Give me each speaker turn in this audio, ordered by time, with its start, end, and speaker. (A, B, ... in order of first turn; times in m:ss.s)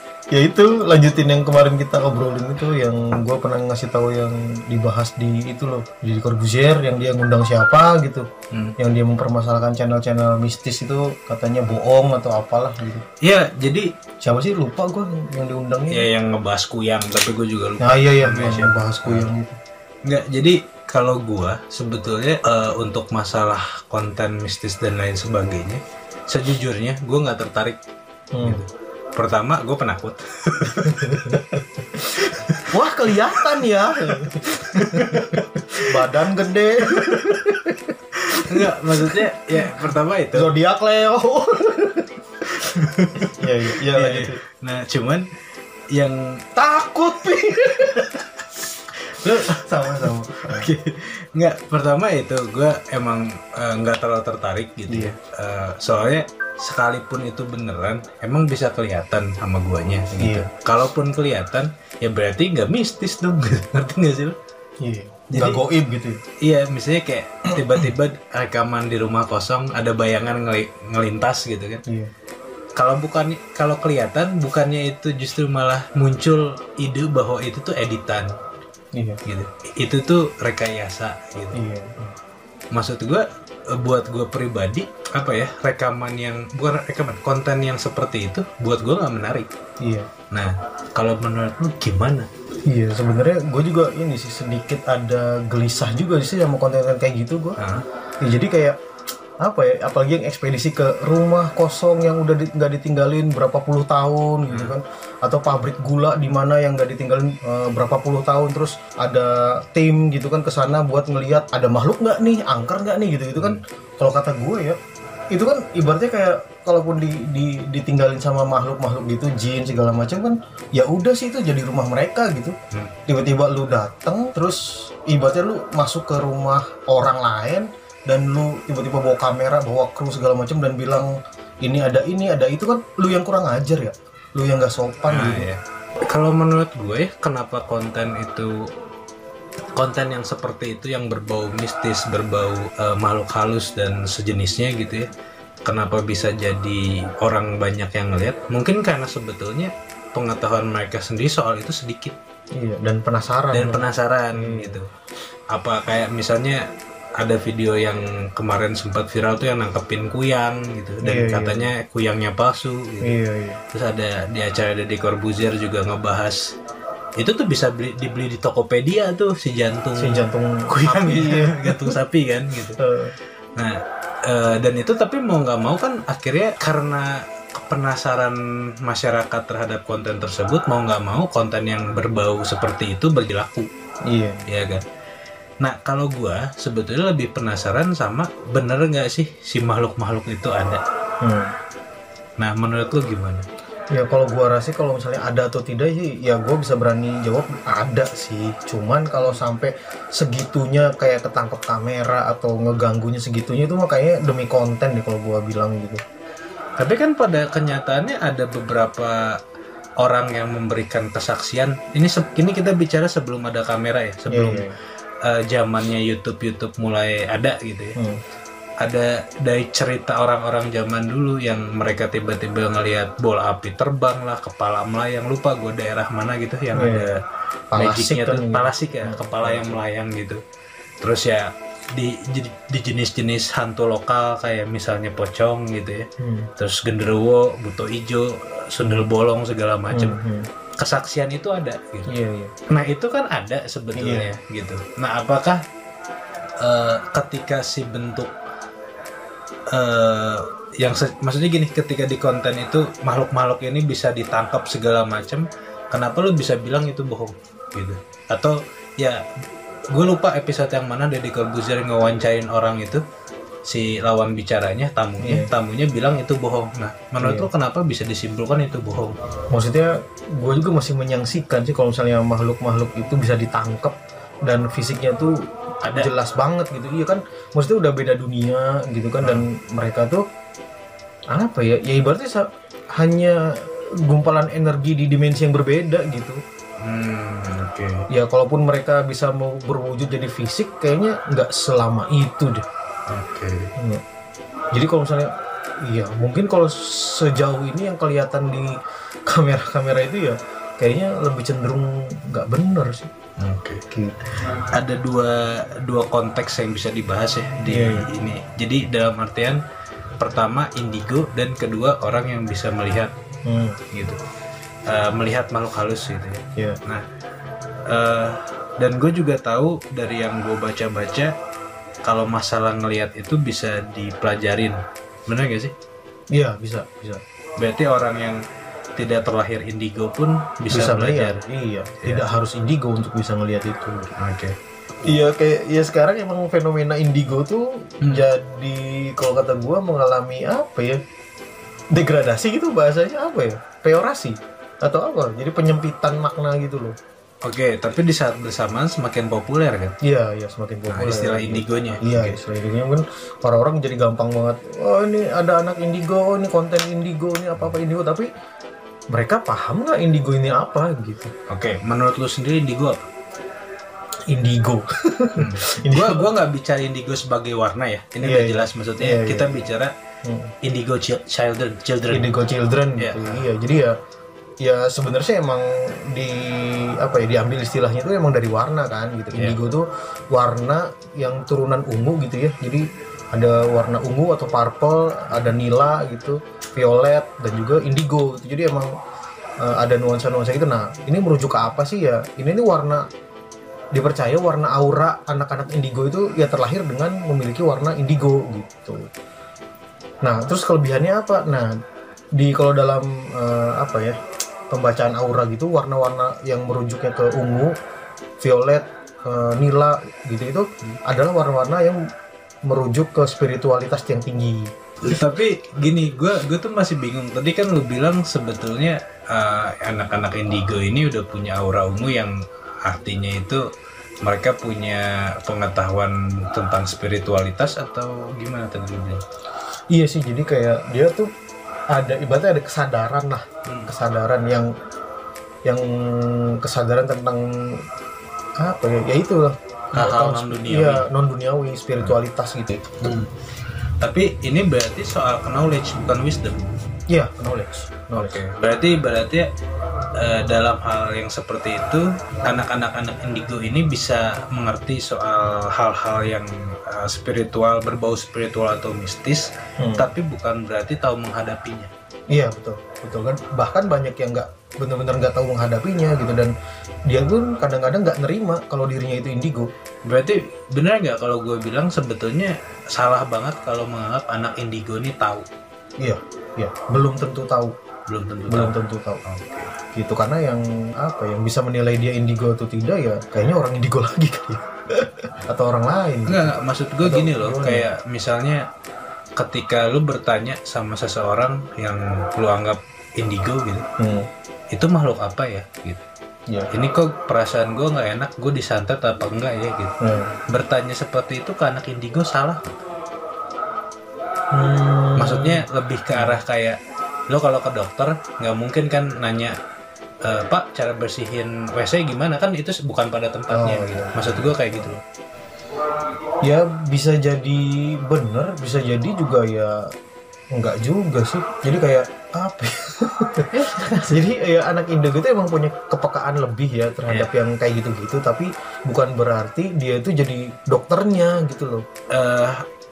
0:00.3-0:08.3 A
0:08.8-0:13.0 A
0:13.2-0:13.9 B
0:14.2-0:16.0 A
0:15.9-0:19.3 B
0:17.8-0:19.6 A
0:20.0-0:27.8 B
0:28.3-0:28.6 A
0:28.4-0:31.6 B
0:30.6-0:42.2 A
0:32.1-0:36.3 B
0:36.9-0:37.5 B
0:38.3-0:40.5 B
0:42.5-0:45.2 B
0:43.2-0:44.4 A
0:45.9-0:46.4 B
0:46.5-0:48.2 A
0:47.8-0:48.2 B
0:49.0-1:04.4 B
0:49.2-0:50.7 A
0:54.9-0:55.1 A
1:00.2-1:00.5 A
1:04.8-1:06.2 A
1:05.3-1:05.6 B
1:06.4-1:11.8 B
1:12.8-1:18.3 B
1:18.9-1:19.2 A
1:19.2-1:21.6 B
1:21.5-1:22.2 A
1:22.7-1:29.5 B
1:29.8-1:30.1 A
1:30.3-1:32.3 B
1:32.7-1:37.6 A
1:37.6-1:37.8 B
1:38.2-1:38.8 A
1:39.4-1:54.8 A
1:55.3-2:02.5 A
2:03.1-2:15.5 A
2:15.1-2:18.6 B
2:19.8-2:25.1 B
2:25.6-2:32.2 B
2:32.6-2:34.8 A
2:33.5-2:34.9 B
2:35.5-2:36.6 B
2:37.2-2:43.1 B
2:41.0-2:41.7 A
2:43.0-2:43.6 A
2:43.7-2:46.4 B
2:47.2-2:52.8 B
2:50.0-2:52.0 A
2:52.8-2:53.1 A
2:53.6-3:03.7 B
3:04.1-3:04.4 A
3:04.5-3:04.8 B
3:05.6-3:10.8 B
3:11.2-3:11.5 A
3:12.4-3:13.4 B
3:13.9-3:26.0 A
3:26.8-3:29.4 B
3:30.0-3:34.6 B
3:34.3-3:34.7 A
3:35.2-3:38.0 B
3:38.8-3:47.2 B
3:46.7-3:47.2 A
3:47.7-3:49.8 A
3:47.8-3:50.4 B
3:51.0-3:56.1 B
3:56.2-3:56.5 A
3:56.6-4:00.2 B
3:58.8-3:59.0 A
3:59.9-4:00.5 A
4:00.8-4:02.1 B
4:02.1-4:02.5 A
4:02.7-4:05.6 B
4:04.0-4:04.3 A
4:06.6-4:08.3 B
4:09.7-4:19.2 B
4:19.9-4:23.0 B
4:23.7-4:29.2 B
4:25.2-4:25.5 A
4:27.2-4:27.5 A
4:29.5-4:35.4 A
4:35.8-4:36.1 B
4:35.9-4:40.2 A
4:41.3-4:46.4 A
4:46.8-4:48.0 B
4:48.1-4:52.6 A
4:53.1-4:53.7 B
4:53.8-4:54.0 A
4:54.7-4:55.3 A
4:55.8-5:03.1 A
5:03.4-5:09.6 B
5:03.9-5:04.2 A
5:07.7-5:08.1 A
5:10.2-5:13.1 B
5:13.4-5:13.8 A
5:13.9-5:14.2 B
5:14.9-5:17.0 B
5:17.9-5:21.3 B
5:22.0-5:25.7 B
5:26.3-5:27.2 A
5:27.6-5:28.4 B
5:29.0-5:31.4 B
5:30.7-5:34.1 A
5:32.0-5:32.3 B
5:34.2-5:34.6 B
5:35.0-5:41.0 A
5:41.9-5:47.0 A
5:47.4-5:49.9 B
5:50.0-5:58.3 A
5:50.9-5:52.4 B
5:59.1-6:01.3 A
6:01.5-6:03.0 B
6:04.3-6:06.2 A
6:05.4-6:09.9 B
6:08.2-6:09.6 A
6:10.2-6:10.5 A
6:10.6-6:12.3 B
6:12.1-6:13.9 A
6:13.0-6:13.4 B
6:14.6-6:28.9 A
6:25.3-6:25.6 B
6:29.6-6:33.0 A
6:33.9-6:39.1 A
6:40.2-6:41.7 A
6:42.3-6:44.2 A
6:44.7-6:47.7 A
6:48.4-6:52.0 A
6:52.7-6:54.7 A
6:55.0-7:03.6 B
7:04.2-7:09.2 B
7:09.9-7:11.3 A
7:11.9-7:14.7 A
7:13.6-7:13.9 B
7:15.6-7:17.8 A
7:18.6-7:23.0 A
7:19.9-7:21.0 B
7:23.0-7:23.4 B
7:24.0-7:26.8 B
7:27.1-7:28.4 A
7:28.2-7:29.5 B
7:30.2-7:41.9 B
7:39.8-7:40.0 A
7:42.3-7:46.5 A
7:47.1-7:49.7 A
7:50.1-7:55.4 B
7:56.0-7:57.7 A
7:58.1-7:59.7 B
7:58.5-7:59.2 A
7:59.9-8:07.9 A
8:06.2-8:08.6 B
8:09.4-8:13.8 B
8:14.0-8:14.3 A
8:14.7-8:16.0 B
8:16.7-8:19.9 B
8:20.0-8:20.3 A
8:20.5-8:22.7 B
8:24.5-8:26.4 A
8:25.2-8:26.8 B
8:27.3-8:29.6 B
8:30.2-8:35.0 B
8:33.5-8:35.0 A
8:36.4-8:39.8 A
8:40.5-8:51.8 A
8:43.5-8:44.0 B
8:52.1-8:52.6 B